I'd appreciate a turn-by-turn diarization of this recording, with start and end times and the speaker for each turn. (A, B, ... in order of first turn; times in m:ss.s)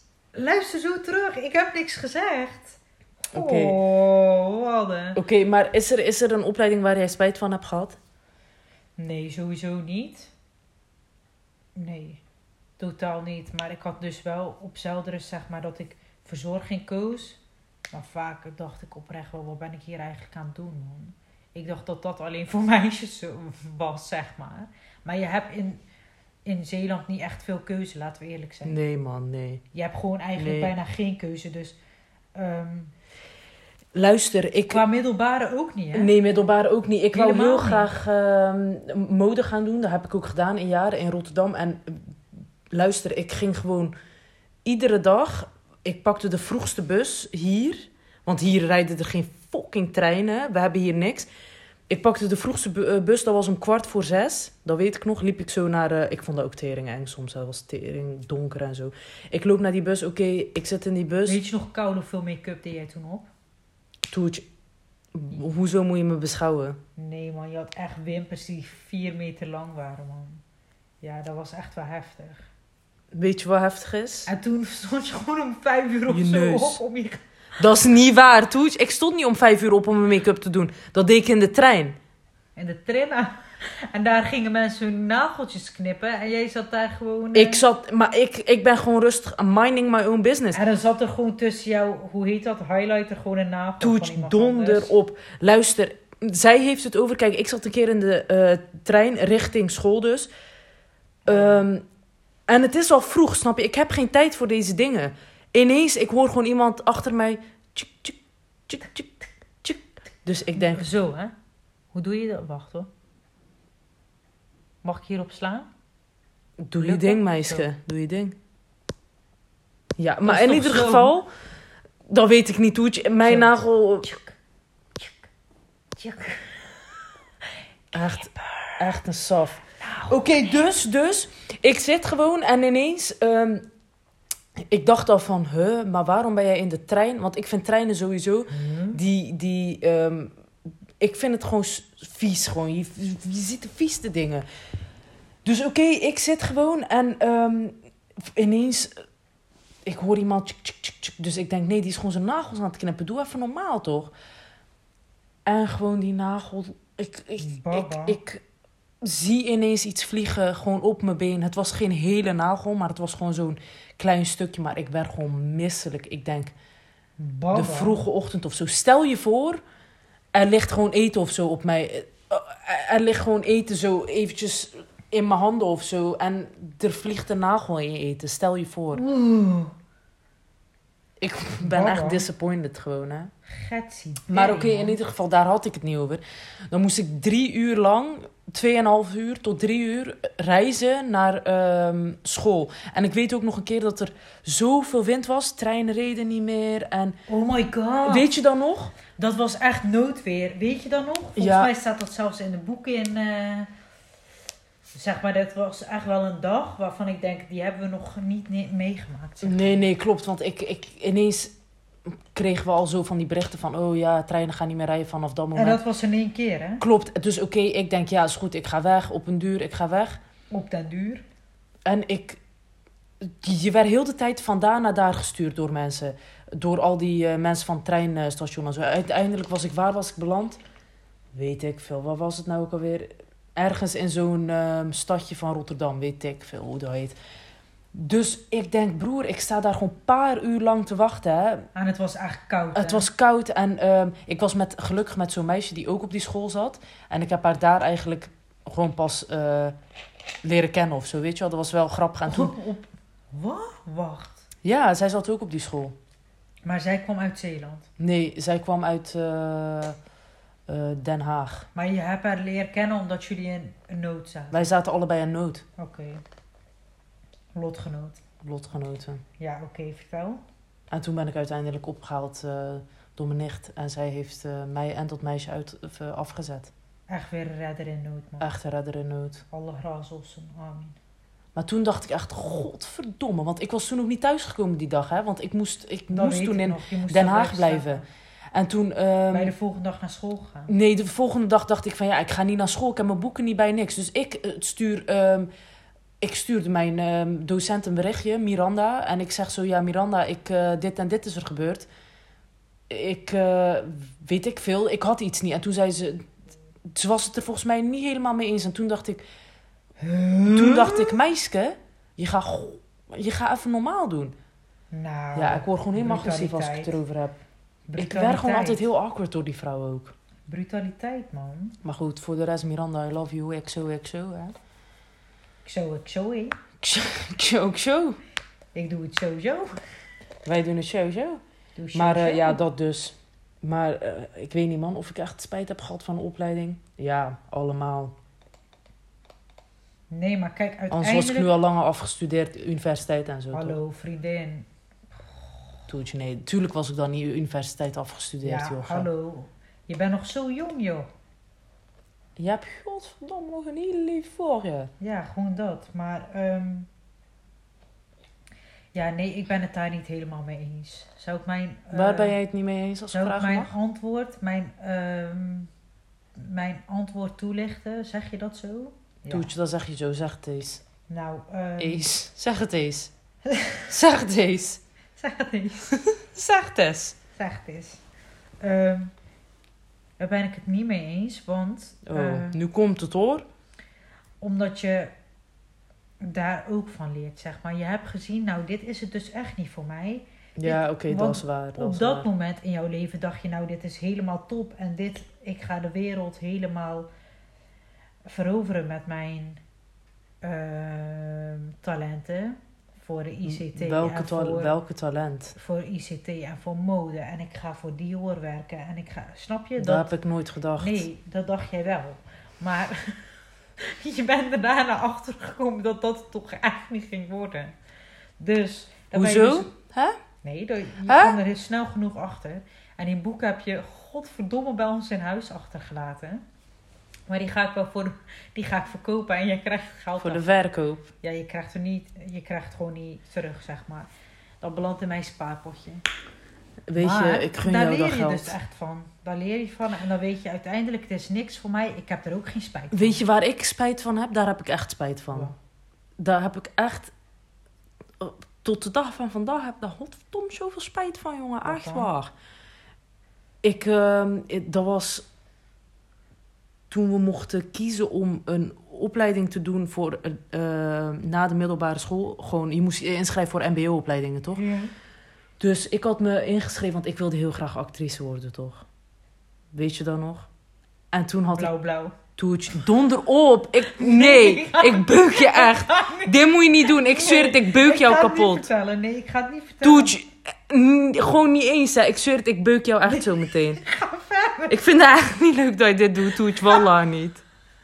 0:00.3-0:05.2 A
0:03.3-0:03.8 B
0:05.1-0:08.0 B
0:09.0-0:10.3 A
0:11.8-0:12.2 A
0:12.8-0:17.4 A
0:17.9-0:25.8 A
0:26.4-0:28.8 A
0:28.6-0:29.6 B
0:29.7-0:31.8 A
0:30.4-0:30.7 B
0:32.3-0:32.9 A
0:33.9-0:34.8 B
0:34.7-0:36.1 A
0:35.9-0:42.2 B
0:37.1-0:37.9 A
0:42.7-0:43.9 B
0:44.6-0:51.3 B
0:51.9-1:01.4 B
1:01.2-1:03.3 A
1:04.1-1:04.4 B
1:05.1-1:06.8 B
1:07.0-1:10.4 A
1:11.0-1:12.5 A
1:13.1-1:14.3 B
1:14.3-1:17.2 A
1:16.1-1:16.8 B
1:17.6-1:22.0 B
1:22.6-1:27.6 A
1:27.3-1:30.6 B
1:30.5-1:34.9 A
1:33.8-1:40.3 B
1:41.2-1:41.6 A
1:41.2-1:41.8 B
1:42.5-1:50.9 B
1:50.5-1:51.3 A
1:51.9-1:52.9 A
1:54.8-1:55.7 A
1:56.6-1:58.4 B
1:56.8-1:57.7 A
2:00.0-2:01.3 B
2:00.2-2:01.2 A
2:02.1-2:04.1 B
2:03.2-2:04.4 A
2:05.0-2:05.3 A
2:06.0-2:06.7 A
2:07.9-2:08.8 A
2:07.9-2:13.6 B
2:09.8-2:10.5 A
2:14.6-2:20.3 B
2:18.5-2:19.0 A
2:21.0-2:24.4 B
2:25.4-2:29.0 B
2:29.8-2:34.1 B
2:35.4-2:38.4 B
2:37.4-2:38.2 A
2:39.0-2:46.5 B
2:47.2-2:48.0 A
2:47.5-2:49.6 B
2:50.3-2:59.0 B
2:58.9-2:59.7 A
3:01.2-3:03.3 B
3:01.6-3:02.2 A
3:03.5-3:05.0 A
3:04.3-3:17.2 B
3:17.3-3:18.3 A
3:18.0-3:18.9 B
3:19.1-3:23.7 A
3:21.4-3:21.7 B
3:24.9-3:29.8 A
3:29.4-3:31.5 B
3:32.1-3:35.8 B
3:35.5-3:36.8 A
3:36.8-3:40.2 B
3:40.5-3:41.2 A
3:41.8-3:42.4 B
3:43.2-3:50.6 B
3:51.3-3:57.2 B
3:57.9-4:01.7 B
4:01.7-4:03.1 A
4:02.7-4:09.8 B
4:10.4-4:12.5 B
4:12.2-4:14.4 A
4:14.6-4:16.0 B
4:16.6-4:17.9 A
4:18.0-4:20.0 B
4:20.7-4:21.7 B
4:21.7-4:24.7 A
4:24.5-4:25.6 B
4:25.8-4:26.2 A
4:27.5-4:28.2 A
4:28.4-4:29.2 B
4:29.4-4:30.4 A
4:30.9-4:36.7 B
4:37.1-4:38.5 A
4:38.4-4:39.4 B
4:39.5-4:41.0 A
4:41.5-4:49.5 B
4:46.1-4:48.0 A
4:49.3-4:50.7 A
4:50.7-4:55.5 B
4:56.2-5:01.9 B
5:02.9-5:06.3 B
5:06.9-5:09.2 B
5:10.0-5:11.2 A
5:10.5-5:14.3 B
5:14.9-5:17.0 A
5:15.4-5:17.4 B
5:17.9-5:18.9 A
5:18.0-5:20.1 B
5:20.5-5:21.8 A
5:21.8-5:24.5 B
5:25.6-5:26.6 A
5:26.8-5:28.2 B
5:28.7-5:29.8 A
5:30.4-5:31.4 B
5:31.8-5:32.6 A
5:31.9-5:38.1 B
5:40.1-5:41.5 A
5:40.9-5:43.8 B
5:43.5-5:44.7 A
5:45.9-5:49.1 B
5:48.4-5:51.1 A
5:52.4-5:54.9 B
5:55.0-5:56.9 A
5:58.9-6:02.4 A
6:01.9-6:03.7 B
6:03.1-6:05.7 A
6:06.4-6:09.5 A
6:09.3-6:10.8 B
6:11.1-6:12.0 A
6:11.8-6:13.1 B
6:13.4-6:13.9 A
6:13.9-6:14.8 B
6:15.2-6:16.0 A
6:16.0-6:17.2 B
6:17.3-6:18.0 A
6:18.6-6:19.1 A
6:20.2-6:22.6 A
6:22.0-6:23.4 B
6:24.4-6:25.1 A
6:26.2-6:37.1 A
6:30.6-6:32.3 B
6:38.2-6:39.6 A
6:40.4-6:44.7 A
6:43.5-6:45.5 B
6:45.5-6:50.2 A
6:49.8-6:51.0 B
6:50.8-6:57.7 A
6:58.4-6:59.7 A
6:59.1-7:00.2 B
7:00.4-7:06.4 A
7:01.0-7:01.4 B
7:07.3-7:10.4 A
7:10.2-7:11.1 B
7:11.2-7:14.1 A
7:14.6-7:16.0 A
7:16.9-7:18.5 B
7:17.0-7:23.2 A
7:22.9-7:25.5 B
7:26.2-7:27.1 B
7:28.2-7:32.3 B
7:31.6-7:32.1 A
7:33.6-7:35.2 B
7:36.9-7:44.6 B
7:44.5-7:44.9 A
7:45.6-7:48.8 B
7:49.7-7:50.5 B
7:51.1-7:51.7 B
7:51.5-7:52.2 A
7:52.4-7:58.7 B
7:53.8-8:00.1 A
7:59.8-8:03.8 B
8:03.1-8:04.8 A
8:04.7-8:07.4 B
8:06.6-8:06.8 A